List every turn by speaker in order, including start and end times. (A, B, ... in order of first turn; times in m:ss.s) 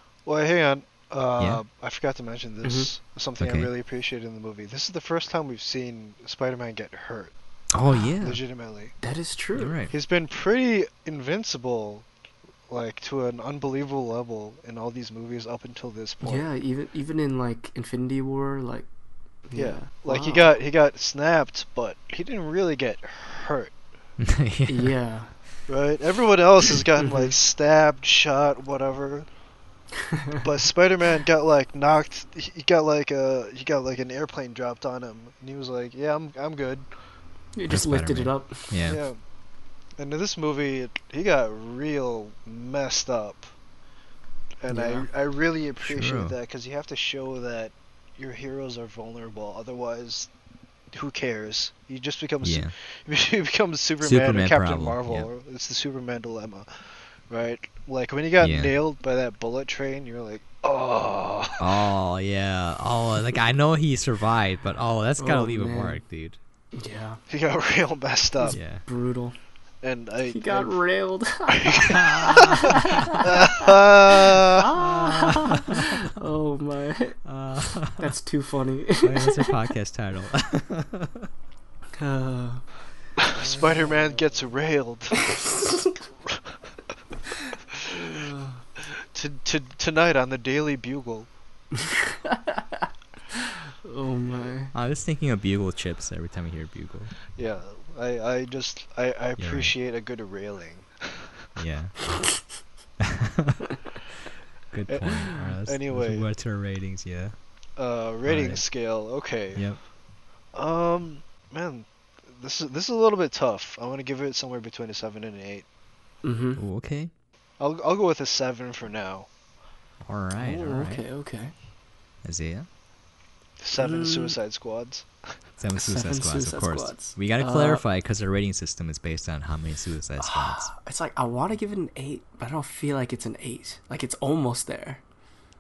0:00.3-0:07.3 A
0:02.6-0:02.9 B
0:03.4-0:03.7 C
0:07.7-0:08.4 C
0:08.2-0:09.0 A
0:09.0-0:09.8 B
0:09.6-0:09.9 C
0:09.9-0:12.1 A
0:12.7-0:16.5 A
0:16.2-0:18.9 B
0:19.5-0:20.5 B
0:19.5-0:23.7 A
0:24.2-0:25.0 C
0:24.7-0:25.3 B
0:25.7-0:29.3 A
0:27.0-0:27.3 B
0:30.4-0:36.9 A
0:37.6-0:38.8 B
0:37.7-0:39.0 C
0:38.8-0:39.2 A
0:40.0-0:43.5 A
0:44.6-0:50.3 A
0:44.7-0:45.1 B
0:45.8-0:46.4 C
0:50.9-0:56.7 A
0:52.4-0:52.7 C
0:54.0-0:55.3 C
0:57.3-1:01.6 A
0:58.4-0:58.8 C
1:01.6-1:06.4 C
1:05.2-1:06.0 B
1:06.8-1:07.2 B
1:07.3-1:08.6 A
1:08.4-1:09.4 B
1:08.5-1:08.8 C
1:09.8-1:10.8 A
1:10.3-1:13.7 B
1:11.5-1:12.4 A
1:11.8-1:12.8 C
1:13.2-1:14.7 A
1:14.3-1:17.3 B
1:14.8-1:15.8 C
1:17.2-1:18.1 C
1:17.8-1:19.5 B
1:19.0-1:21.3 C
1:22.0-1:22.7 B
1:23.2-1:25.4 A
1:23.4-1:23.9 B
1:25.1-1:26.0 B
1:27.8-1:28.1 A
1:27.9-1:28.6 B
1:28.8-1:31.3 A
1:32.1-1:32.8 B
1:33.8-1:34.7 B
1:34.7-1:37.1 C
1:37.4-1:41.3 A
1:39.4-1:39.7 C
1:41.6-1:42.1 C
1:43.0-1:43.6 C
1:44.7-1:47.4 C
1:44.9-1:46.3 A
1:47.8-1:49.7 A
1:48.2-1:48.6 C
1:49.6-1:49.8 C
1:50.5-1:55.7 A
1:56.2-1:56.6 B
1:56.6-1:57.1 C
1:57.6-1:59.3 A
2:00.0-2:01.0 C
2:00.4-2:01.5 B
2:02.2-2:02.7 C
2:03.6-2:05.1 A
2:03.8-2:04.4 B
2:05.6-2:10.7 C
2:05.8-2:07.8 B
2:10.2-2:15.0 B